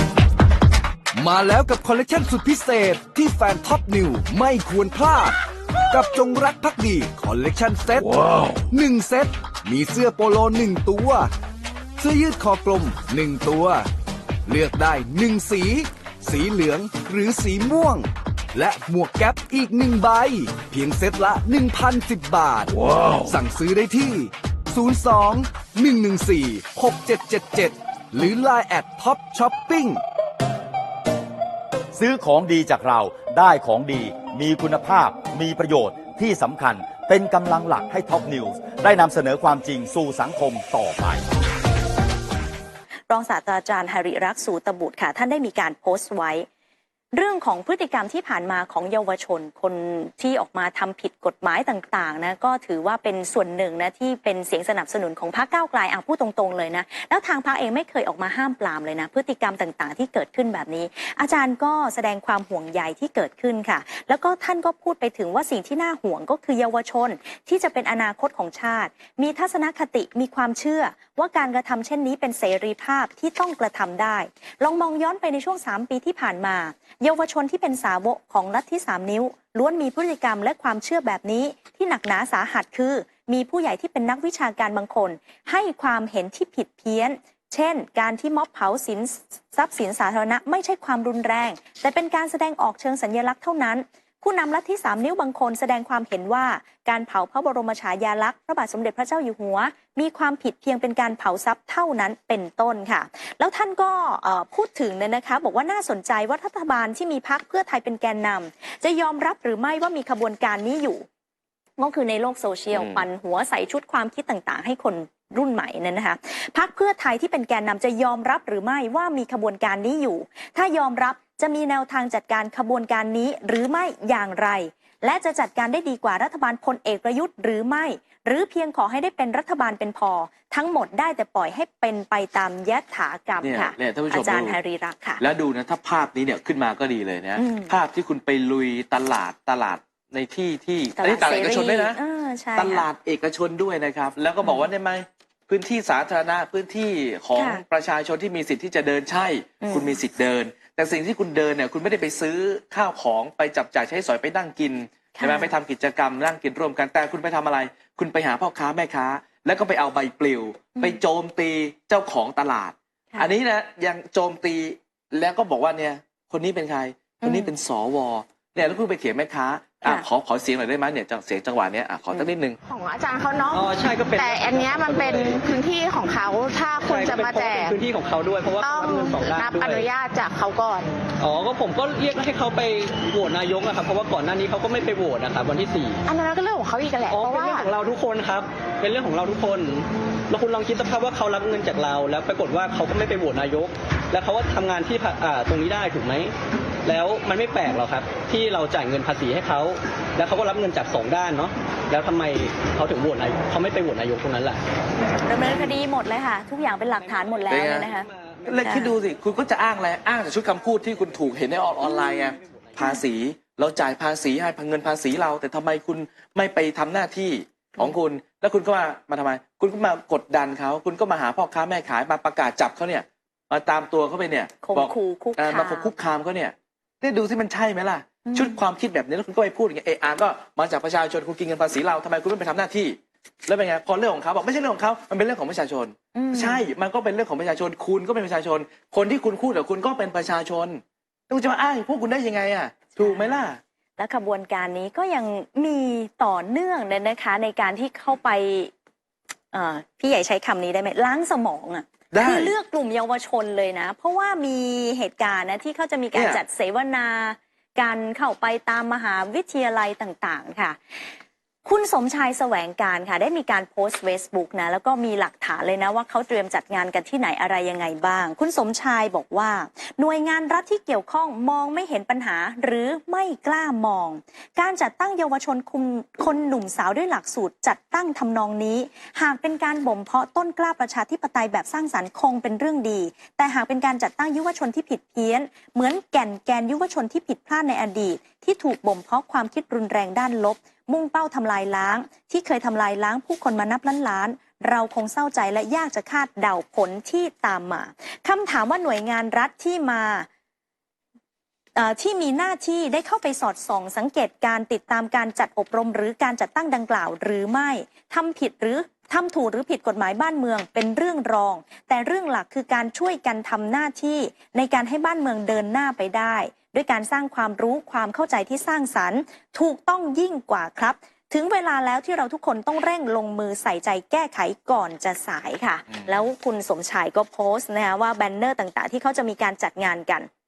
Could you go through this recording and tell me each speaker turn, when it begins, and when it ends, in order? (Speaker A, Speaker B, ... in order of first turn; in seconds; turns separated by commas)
Speaker A: 1.1-5.4, Speaker A: 5.9-11.3, Speaker A: 12.0-13.9, Speaker A: 14.4-30.0, Speaker B: 31.9-41.2, Speaker C: 43.1-46.5, Speaker C: 47.1-111.0, Speaker C: 111.8-135.2, Speaker D: 112.7-113.0, Speaker D: 133.4-134.5, Speaker D: 135.2-142.0, Speaker C: 137.4-137.7, Speaker C: 141.0-142.9, Speaker D: 142.5-172.6, Speaker C: 147.3-147.6, Speaker C: 149.6-150.0, Speaker C: 155.2-155.5, Speaker C: 167.2-167.5, Speaker E: 172.6-177.8, Speaker F: 173.5-175.5, Speaker F: 176.7-179.9, Speaker E: 178.6-181.0, Speaker F: 181.2-186.0, Speaker E: 186.1-187.7, Speaker F: 187.1-196.3, Speaker F: 196.8-204.6, Speaker C: 205.2-208.1, Speaker F: 205.4-205.7, Speaker F: 207.0-208.9, Speaker D: 207.5-207.9, Speaker D: 208.5-243.6, Speaker C: 208.6-208.9, Speaker F: 210.8-211.2, Speaker C: 211.8-213.0, Speaker F: 212.4-212.8, Speaker C: 224.6-225.9, Speaker C: 228.2-228.6, Speaker C: 236.1-236.6, Speaker C: 243.0-243.3, Speaker C: 244.0-248.7, Speaker C: 249.5-260.8, Speaker D: 252.1-252.5, Speaker D: 256.1-256.4, Speaker C: 261.6-300.3, Speaker C: 301.8-330.3